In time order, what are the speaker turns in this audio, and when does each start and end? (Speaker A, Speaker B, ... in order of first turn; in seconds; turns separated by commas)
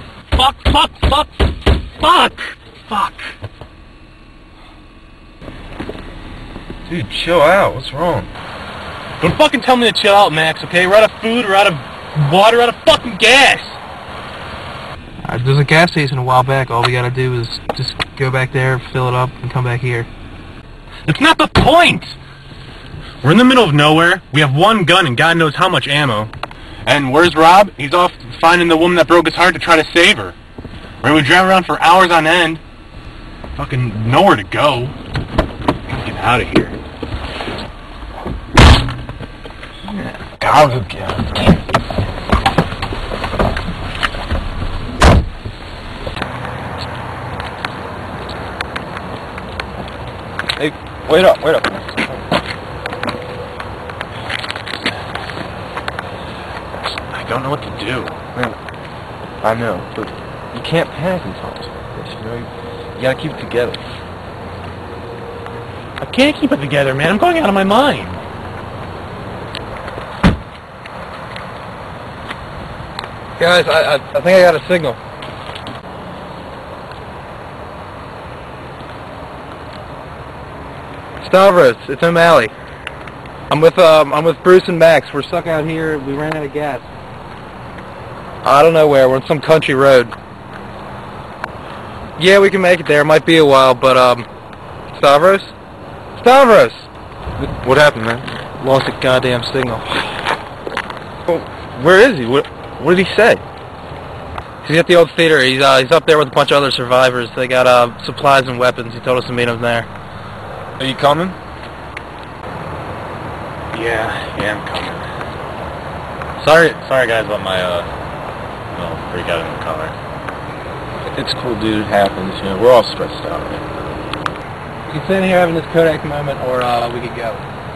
Speaker A: 0.3-3.3, Speaker B: 6.9-8.3, Speaker A: 9.2-13.8, Speaker C: 15.2-20.1, Speaker A: 21.1-22.2, Speaker A: 23.2-26.3, Speaker A: 26.9-30.4, Speaker A: 31.0-32.6, Speaker A: 33.6-35.0, Speaker A: 35.9-36.8, Speaker B: 40.4-41.2, Speaker A: 40.5-40.9, Speaker B: 50.6-52.0, Speaker A: 57.1-58.2, Speaker B: 59.4-63.8, Speaker A: 66.0-68.2, Speaker C: 73.4-75.0, Speaker C: 81.2-82.5, Speaker C: 83.5-86.9, Speaker C: 88.4-90.2, Speaker C: 92.2-94.3, Speaker C: 94.9-95.5, Speaker C: 96.2-96.9, Speaker B: 97.4-98.3, Speaker C: 98.6-100.1, Speaker B: 101.3-103.4, Speaker C: 104.6-109.9, Speaker B: 110.8-111.4, Speaker A: 113.7-115.0, Speaker A: 116.4-117.9, Speaker A: 118.7-119.9, Speaker B: 121.1-123.7, Speaker C: 124.9-127.5